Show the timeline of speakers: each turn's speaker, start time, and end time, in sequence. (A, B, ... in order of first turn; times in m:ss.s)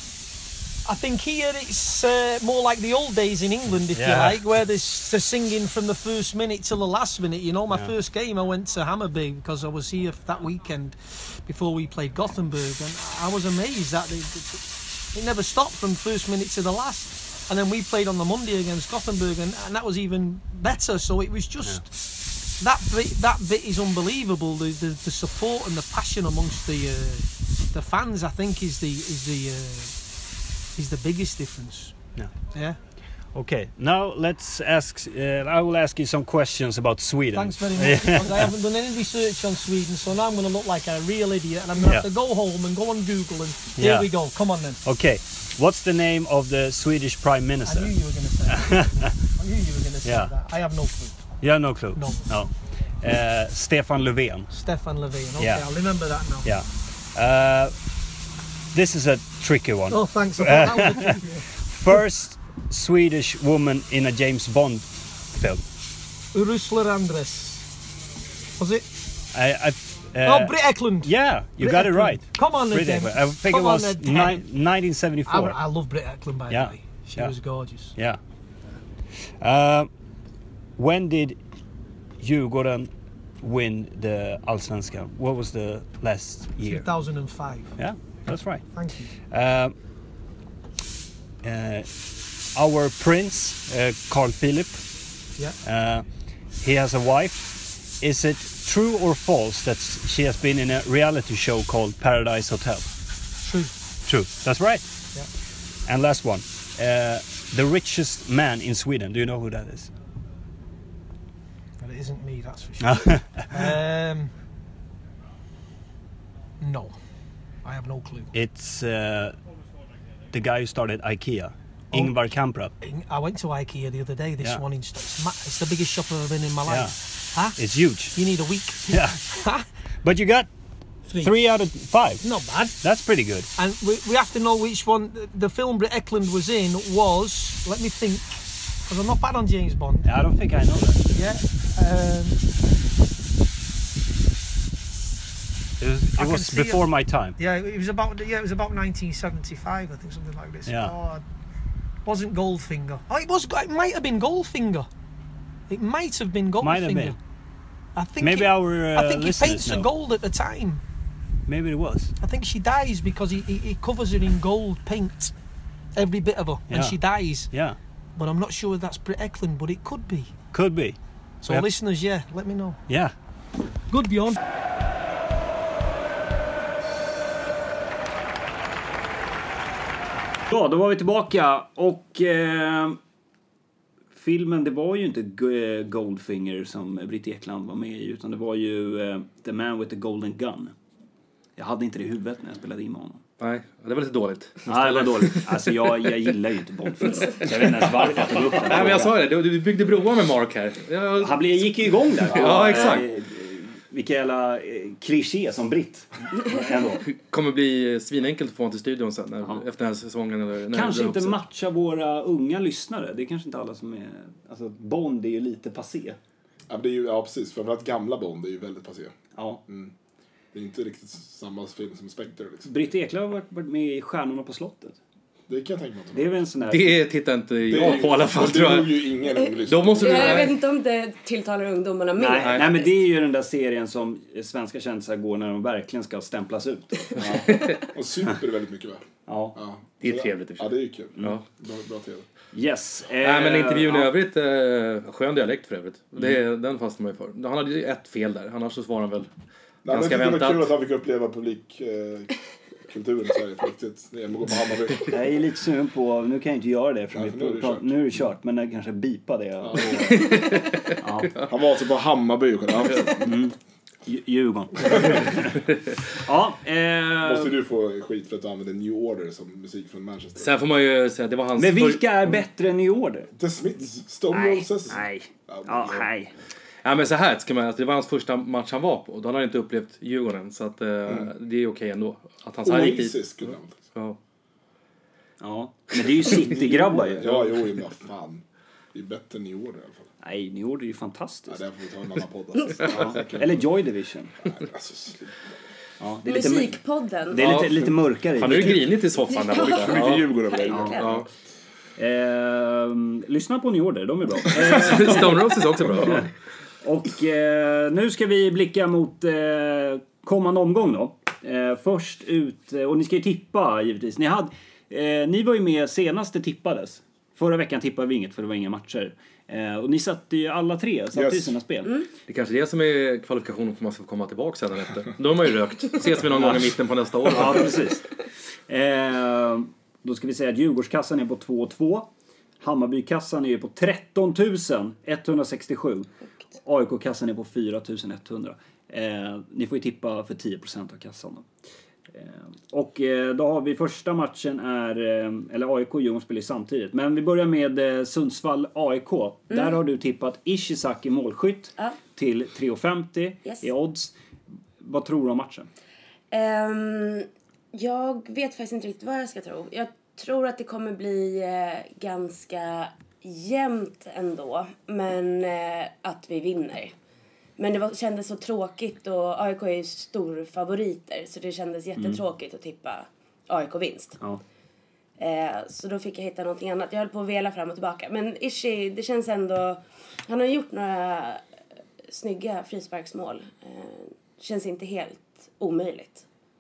0:00.8-0:14.6 A
0:03.9-0:04.4 B
0:15.1-0:21.9 A
0:22.6-0:29.9 A
0:30.8-0:32.0 A
0:32.5-0:32.8 A
0:33.3-0:38.5 B
0:37.3-0:44.8 A
0:41.8-0:42.1 B
0:43.8-0:44.1 B
0:44.8-0:48.0 B
0:47.6-0:51.2 A
0:48.5-0:49.2 B
0:50.0-0:50.3 B
0:51.4-0:54.5 B
0:52.0-0:52.3 A
0:54.5-0:56.5 A
0:55.4-0:55.7 B
0:56.4-0:57.8 B
0:58.7-1:05.6 B
0:59.9-1:01.4 A
1:06.3-1:07.7 A
1:08.6-1:08.9 A
1:09.3-1:15.6 B
1:10.2-1:14.4 A
1:15.3-1:18.0 A
1:16.5-1:17.4 B
1:19.4-1:19.9 B
1:20.8-1:21.4 B
1:22.2-1:26.9 B
1:26.6-1:27.8 A
1:27.8-1:28.7 B
1:28.7-1:29.2 A
1:29.3-1:29.8 B
1:31.4-1:31.9 B
1:32.6-1:34.8 B
1:35.6-1:36.0 B
1:36.6-1:42.9 B
1:43.4-1:43.7 A
1:44.1-1:44.9 B
1:45.9-1:49.9 B
1:51.8-1:54.3 A
1:52.8-1:53.7 B
1:56.6-1:57.0 A
1:57.6-1:58.4 A
1:58.3-1:59.4 B
2:00.3-2:02.7 B
2:02.8-2:07.6 A
2:06.7-2:07.0 B
2:07.6-2:08.2 B
2:08.1-2:09.6 A
2:08.9-2:09.3 B
2:10.0-2:10.5 B
2:11.2-2:12.2 B
2:12.2-2:12.8 A
2:12.8-2:13.5 B
2:13.6-2:20.1 A
2:20.0-2:21.0 C
2:21.1-2:22.4 A
2:25.8-2:27.4 B
2:26.2-2:31.2 A
2:30.7-2:30.9 B
2:32.1-2:34.9 A
2:35.7-2:37.2 A
2:36.6-2:37.2 B
2:38.0-2:40.8 A
2:38.2-2:39.9 B
2:41.5-2:42.1 B
2:42.2-2:45.3 A
2:46.0-2:47.5 A
2:46.7-2:47.0 B
2:47.5-2:47.8 B
2:48.2-2:50.4 A
2:50.5-2:51.7 B
2:51.4-2:52.8 A
2:52.9-2:53.1 B
2:53.9-2:54.4 A
3:00.5-3:03.0 C
3:04.1-3:10.7 C
3:11.6-3:13.2 C
3:13.4-3:15.5 D
3:14.7-3:19.2 C
3:18.5-3:23.1 D
3:21.2-3:27.0 C
3:27.0-3:31.4 D
3:30.7-3:36.2 C
3:36.7-3:39.2 E
3:39.4-3:39.6 C
3:39.7-3:39.9 E
3:40.5-3:42.7 E
3:42.6-3:45.0 C
3:45.5-3:46.3 E
3:46.1-3:47.0 C
3:46.7-3:49.1 D
3:47.7-3:50.6 E
3:49.6-3:50.6 D
3:50.0-3:52.9 F
3:52.2-3:57.2 C
3:52.4-3:52.6 D
3:57.2-3:59.0 E
3:57.2-3:57.8 D
3:59.3-3:59.6 C
3:59.6-4:02.3 E
4:00.0-4:01.4 D
4:02.5-4:04.1 C
4:03.2-4:09.3 D
4:09.8-4:12.4 E
4:09.9-4:10.7 D
4:12.9-4:15.2 E
4:15.1-4:20.2 C
4:17.1-4:17.9 E
4:19.7-4:20.2 E
4:20.1-4:21.4 D
4:21.0-4:21.4 C
4:21.4-4:23.3 E
4:23.2-4:25.6 C
4:26.2-4:27.6 C
4:27.2-4:30.6 E
4:30.4-4:32.1 D
4:31.6-4:33.3 C
4:33.4-4:36.1 E
4:34.3-4:36.3 C
4:36.8-4:43.2 D
4:42.6-4:43.9 E
4:43.9-4:44.2 D
4:45.4-4:47.2 C
4:46.2-4:48.4 E
4:48.9-4:50.1 E
4:50.2-4:51.6 C
4:51.5-4:53.6 E
4:52.8-4:54.4 C
4:54.4-4:55.4 E
4:56.0-4:56.8 C
4:56.2-4:57.6 F
4:57.3-4:58.8 C
4:57.4-5:00.3 D
4:58.4-4:58.8 E
4:59.2-5:01.1 F
4:59.4-5:01.3 E
5:00.7-5:01.0 C
5:00.8-5:01.3 D
5:02.0-5:05.4 C
5:04.6-5:06.3 D
5:06.8-5:22.0 C
5:21.1-5:21.5 E
5:22.3-5:27.8 D
5:26.3-5:26.7 C
5:27.2-5:28.1 C
5:28.7-5:32.1 C
5:32.6-5:36.1 C
5:36.6-5:41.5 C
5:42.2-5:54.2 C
5:49.5-5:49.8 F
5:54.8-5:55.7 C
5:56.3-6:07.0 F
6:07.6-6:14.2 F
6:12.0-6:12.2 C
6:15.2-6:21.4 F
6:22.1-6:26.2 F